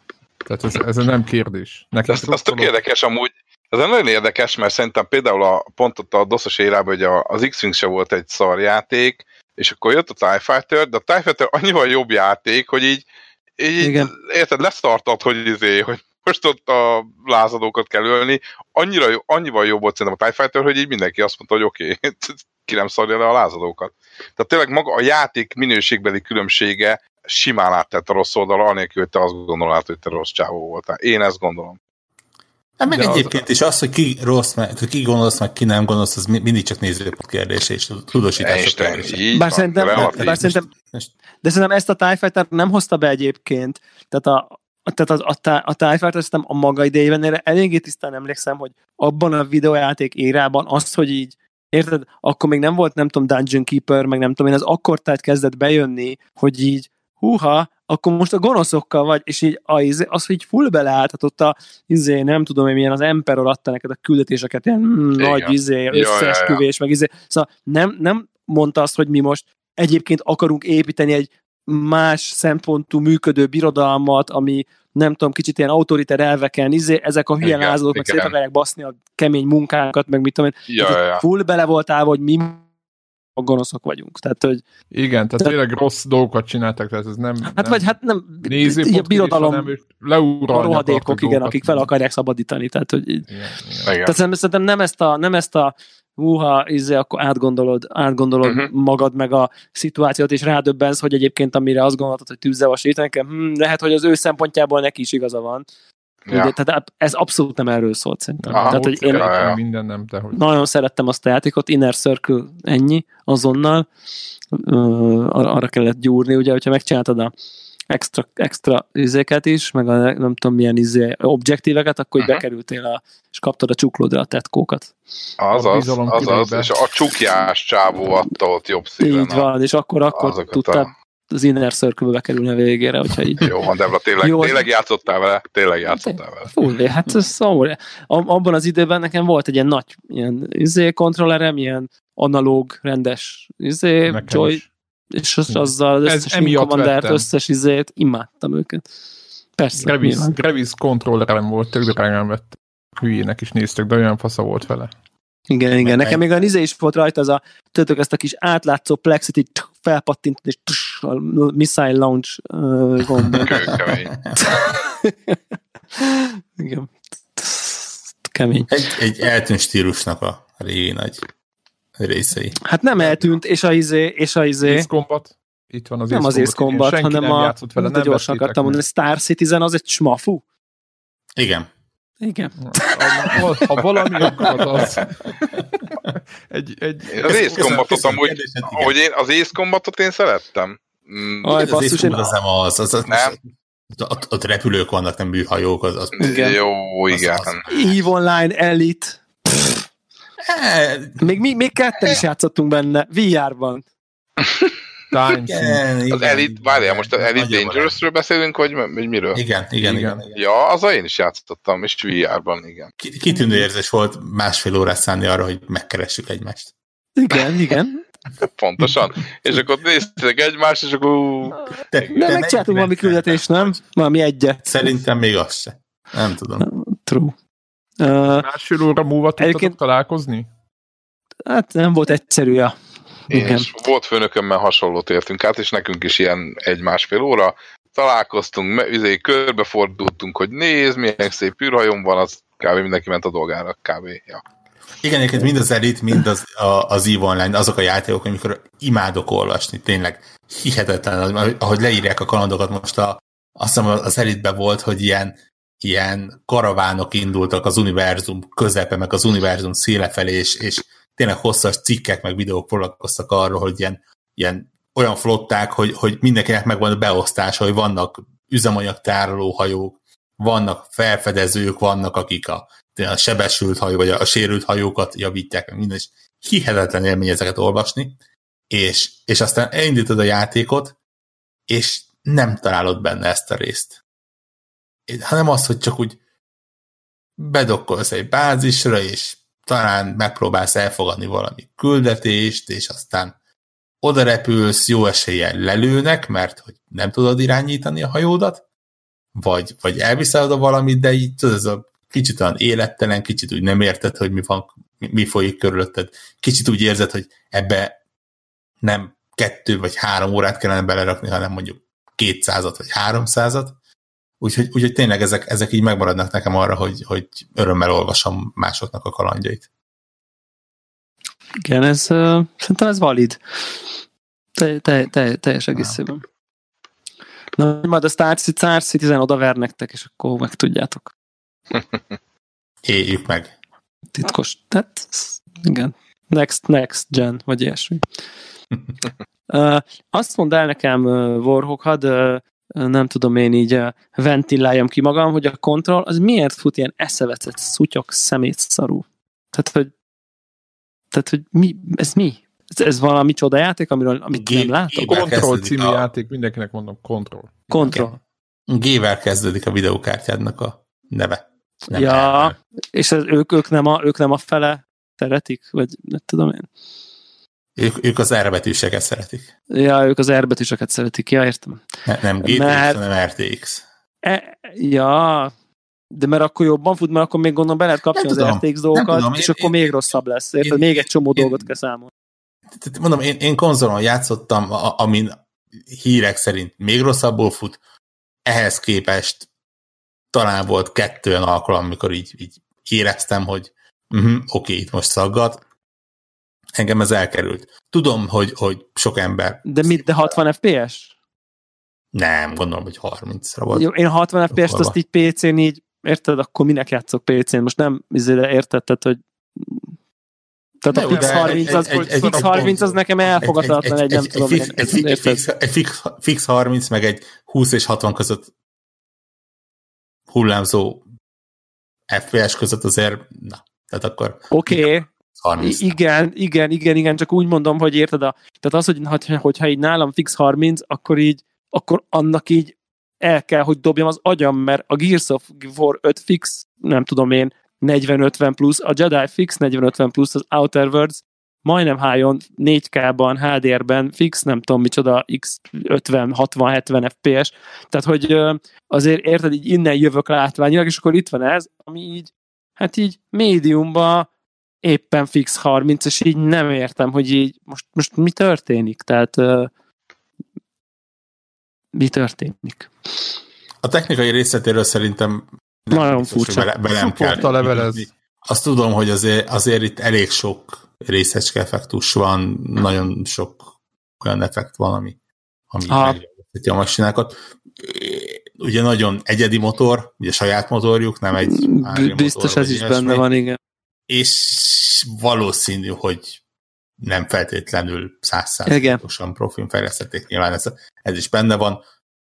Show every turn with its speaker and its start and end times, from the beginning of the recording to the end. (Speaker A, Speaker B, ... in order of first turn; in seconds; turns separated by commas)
Speaker A: 0.5-2.7, Speaker B: 2.1-13.0, Speaker B: 13.6-31.8, Speaker C: 13.8-14.1, Speaker D: 32.8-39.2, Speaker A: 32.9-33.4, Speaker B: 38.4-40.4, Speaker C: 39.4-40.7, Speaker D: 39.9-41.1, Speaker C: 41.4-82.7, Speaker B: 65.2-66.6, Speaker B: 77.4-78.3, Speaker B: 80.7-81.2, Speaker C: 83.4-84.6, Speaker A: 84.9-87.9, Speaker C: 87.4-89.7, Speaker A: 88.4-91.9, Speaker C: 90.5-93.3, Speaker A: 93.3-93.9, Speaker B: 93.8-94.1, Speaker C: 94.0-105.7, Speaker B: 98.4-98.7, Speaker B: 106.3-106.5, Speaker C: 106.3-109.4, Speaker A: 108.5-110.4, Speaker B: 108.5-109.6, Speaker C: 110.3-113.9, Speaker C: 114.5-117.3, Speaker C: 117.9-124.9, Speaker B: 125.4-129.5, Speaker A: 125.5-126.8, Speaker C: 129.0-133.5, Speaker B: 130.1-130.9, Speaker B: 133.4-136.6, Speaker C: 134.2-134.6, Speaker C: 135.9-144.6, Speaker A: 144.1-144.7, Speaker C: 145.1-148.8, Speaker A: 145.5-147.3, Speaker C: 149.6-150.4, Speaker A: 149.8-154.9, Speaker C: 155.5-163.6, Speaker D: 155.8-156.2, Speaker D: 163.3-163.5, Speaker B: 163.4-164.2, Speaker C: 164.4-165.4, Speaker C: 165.9-168.7, Speaker D: 168.7-171.2, Speaker D: 172.0-172.6, Speaker C: 172.6-174.9, Speaker A: 174.6-178.8, Speaker C: 176.1-180.4, Speaker D: 181.4-181.7, Speaker C: 182.2-183.4, Speaker A: 182.6-188.1, Speaker D: 184.2-185.1, Speaker B: 187.1-191.7, Speaker D: 187.2-188.9, Speaker C: 191.4-192.3, Speaker D: 191.6-193.4, Speaker B: 193.1-193.3, Speaker D: 193.9-196.5, Speaker C: 196.2-196.6, Speaker B: 196.2-197.6, Speaker D: 197.1-197.9, Speaker C: 197.7-199.8, Speaker D: 200.4-201.3, Speaker C: 201.2-203.9, Speaker A: 205.1-205.8, Speaker D: 205.5-208.0, Speaker B: 206.1-209.4, Speaker D: 209.3-210.4, Speaker A: 209.8-210.2, Speaker B: 210.3-212.9, Speaker D: 213.0-216.7, Speaker C: 217.2-218.0, Speaker B: 218.4-221.6, Speaker C: 221.6-224.9, Speaker D: 221.9-223.7, Speaker D: 224.7-226.7, Speaker C: 226.6-227.3, Speaker C: 228.0-228.4, Speaker A: 228.2-230.5, Speaker C: 229.4-229.7, Speaker C: 231.4-232.7, Speaker C: 233.3-233.7, Speaker B: 233.3-244.4, Speaker D: 245.0-278.2, Speaker D: 278.7-280.9, Speaker D: 281.7-284.0, Speaker D: 285.1-286.2, Speaker D: 287.4-293.3, Speaker D: 294.0-298.6, Speaker D: 299.4-308.0, Speaker D: 308.8-313.8, Speaker D: 314.4-319.7, Speaker C: 321.6-323.8, Speaker C: 324.6-326.2, Speaker C: 327.6-331.1, Speaker D: 332.8-333.5, Speaker C: 334.1-338.1, Speaker C: 339.5-349.9, Speaker C: 351.1-355.1, Speaker D: 354.3-356.1, Speaker A: 355.0-358.0, Speaker C: 357.7-358.1, Speaker D: 357.9-358.1, Speaker D: 358.7-362.6, Speaker C: 361.9-366.7, Speaker D: 367.8-369.5, Speaker C: 369.7-371.9, Speaker D: 372.1-373.9, Speaker C: 372.4-373.0, Speaker C: 374.2-375.5, Speaker C: 376.1-382.1, Speaker D: 378.1-379.7, Speaker D: 380.6-381.7, Speaker D: 382.8-387.8, Speaker D: 388.4-389.4, Speaker D: 390.3-395.6, Speaker D: 396.8-400.0, Speaker C: 399.6-401.1, Speaker D: 402.1-403.9, Speaker C: 403.7-409.9, Speaker D: 404.5-404.9, Speaker C: 410.8-415.4, Speaker D: 410.9-412.8, Speaker A: 410.9-413.0, Speaker D: 413.4-418.5, Speaker D: 420.3-421.1, Speaker D: 422.1-424.9, Speaker C: 424.5-425.1, Speaker D: 425.4-426.0, Speaker C: 425.6-454.3, Speaker C: 454.8-459.7, Speaker C: 461.9-462.9, Speaker D: 463.8-473.7, Speaker C: 465.9-466.7, Speaker A: 466.9-468.1, Speaker D: 474.2-475.2, Speaker D: 475.7-483.2, Speaker C: 475.9-476.2, Speaker C: 481.4-483.6, Speaker D: 484.1-486.4, Speaker D: 487.0-491.8, Speaker C: 488.7-489.0